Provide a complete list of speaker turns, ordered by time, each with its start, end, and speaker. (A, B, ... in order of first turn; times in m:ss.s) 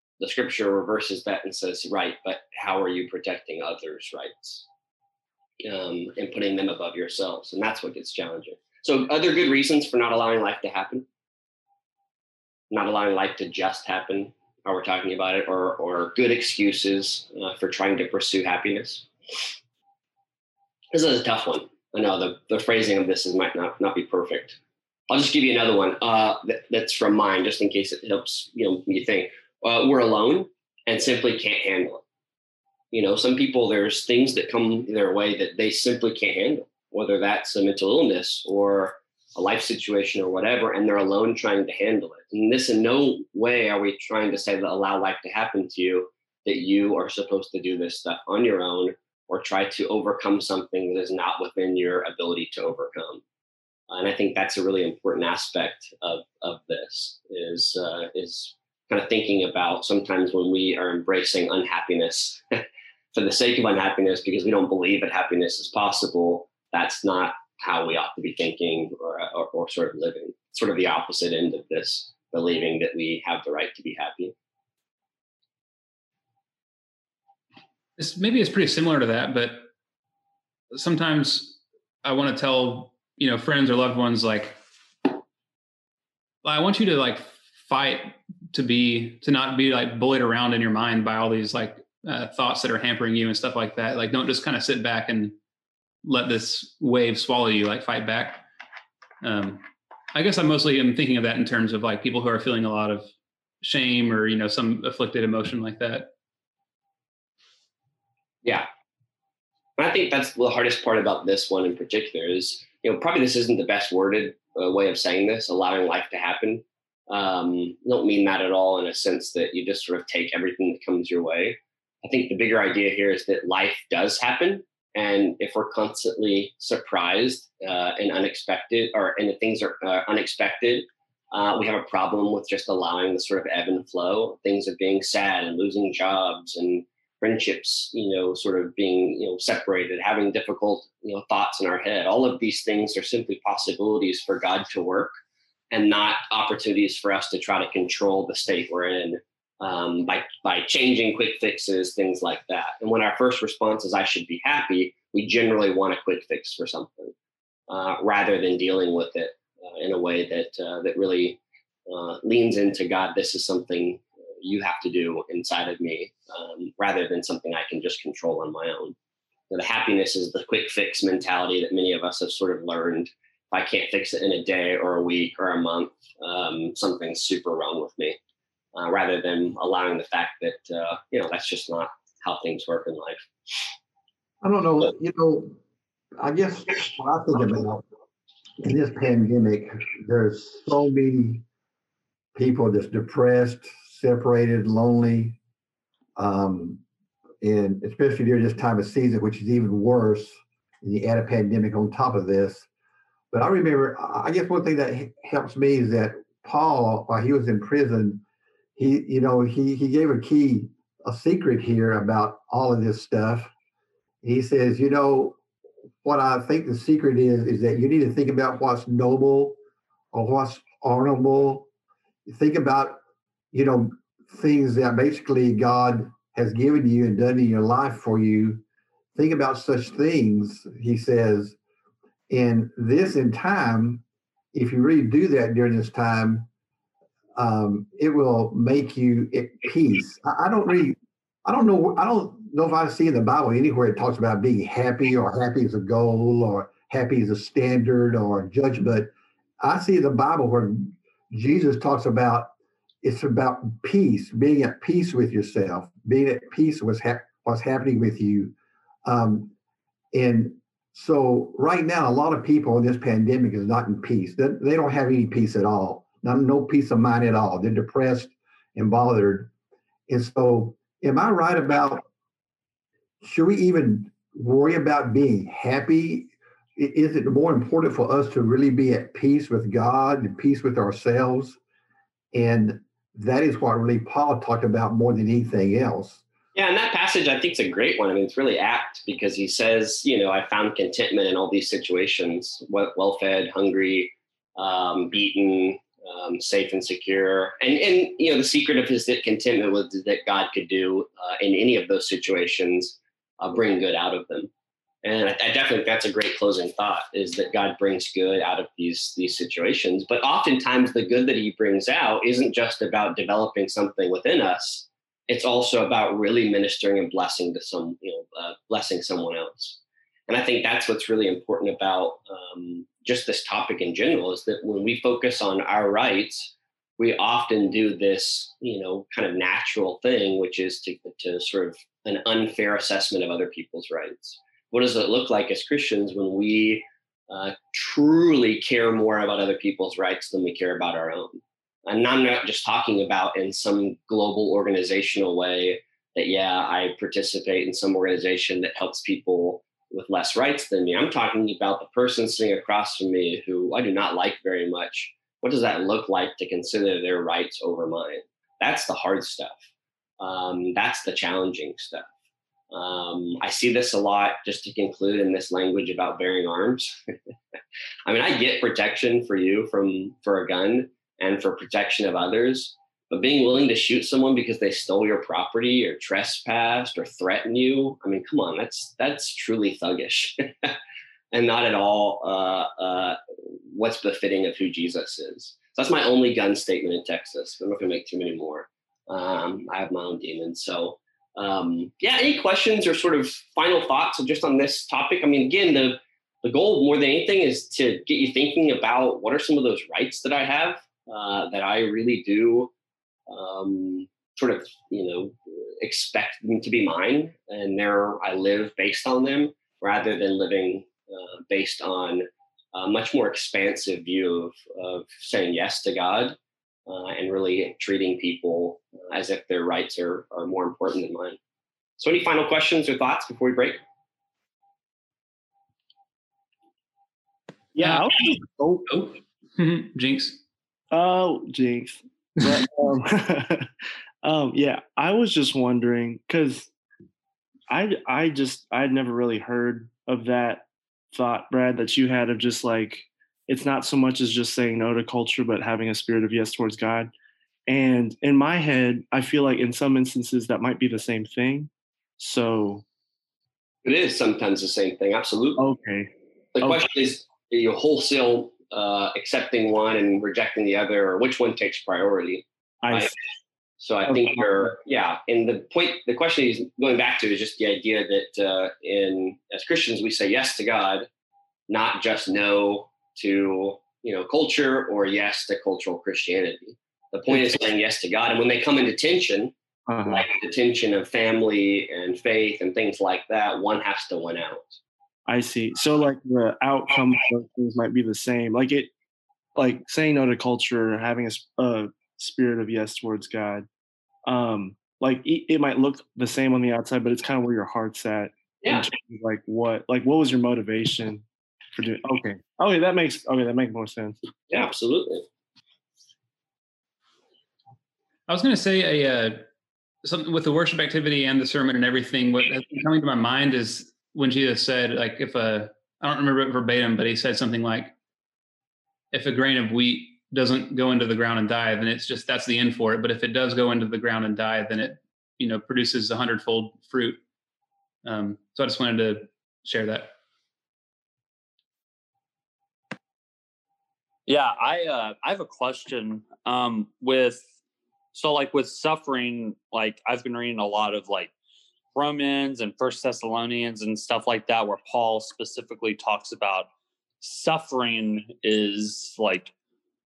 0:00.2-0:04.6 A
0:05.6-0:11.0 A
0:12.7-0:19.1 A
0:20.9-0:24.6 A
0:25.1-0:32.0 A
0:32.9-0:53.2 A
0:53.9-1:02.6 A
1:03.1-1:14.3 A
1:18.0-1:19.7 B
1:20.7-1:25.1 B
1:26.4-1:35.4 B
1:36.0-1:38.5 B
1:39.2-1:43.1 B
1:43.6-1:46.1 B
1:49.8-2:25.1 A
2:25.7-2:37.1 A
2:37.7-2:48.9 A
2:49.5-2:58.2 A
2:58.8-3:03.2 A
3:04.4-3:05.6 C
3:06.2-3:07.8 C
3:08.6-3:11.4 C
3:12.4-3:15.4 C
3:16.2-3:16.8 C
3:17.4-3:22.6 C
3:23.3-3:28.2 C
3:28.8-3:33.5 C
3:34.2-3:35.4 C
3:36.0-3:39.6 C
3:40.1-3:41.7 C
3:42.3-3:43.0 C
3:43.5-3:48.6 C
3:49.2-3:51.6 C
3:52.3-3:56.5 C
3:57.4-4:12.5 C
4:13.0-4:18.5 C
4:19.0-4:19.5 C
4:20.1-4:29.5 C
4:30.1-4:32.0 C
4:33.2-4:41.6 C
4:42.3-4:46.2 C
4:46.5-5:04.5 A
5:05.0-5:59.6 A
6:00.2-6:02.1 A
6:02.7-6:07.0 A
6:08.1-6:20.8 A
6:21.3-6:23.2 A
6:23.7-6:42.7 A
6:43.3-7:01.4 A
7:02.0-7:03.8 A
7:07.8-7:08.9 D
7:07.8-7:08.1 B
7:08.9-7:10.4 B
7:10.9-7:13.7 D
7:14.2-7:16.7 D
7:17.7-7:27.1 D
7:27.7-7:32.8 D
7:33.8-7:35.6 A
7:35.6-7:36.9 D
7:36.6-7:43.1 A
7:42.8-7:43.2 D
7:43.8-7:51.1 A
7:44.1-7:44.7 D
7:51.7-7:59.5 A
7:57.3-7:57.6 D
7:59.9-8:00.3 D
8:00.1-8:04.8 A
8:05.3-8:08.9 D
8:09.6-8:13.7 D
8:14.3-8:21.2 D
8:21.8-8:24.2 D
8:24.5-8:25.2 A
8:28.3-8:29.4 B
8:30.0-8:37.9 B
8:39.1-8:47.2 B
8:48.0-8:50.1 B
8:54.3-8:57.4 E
8:58.1-9:01.3 E
9:01.9-9:06.7 E
9:07.2-9:09.5 E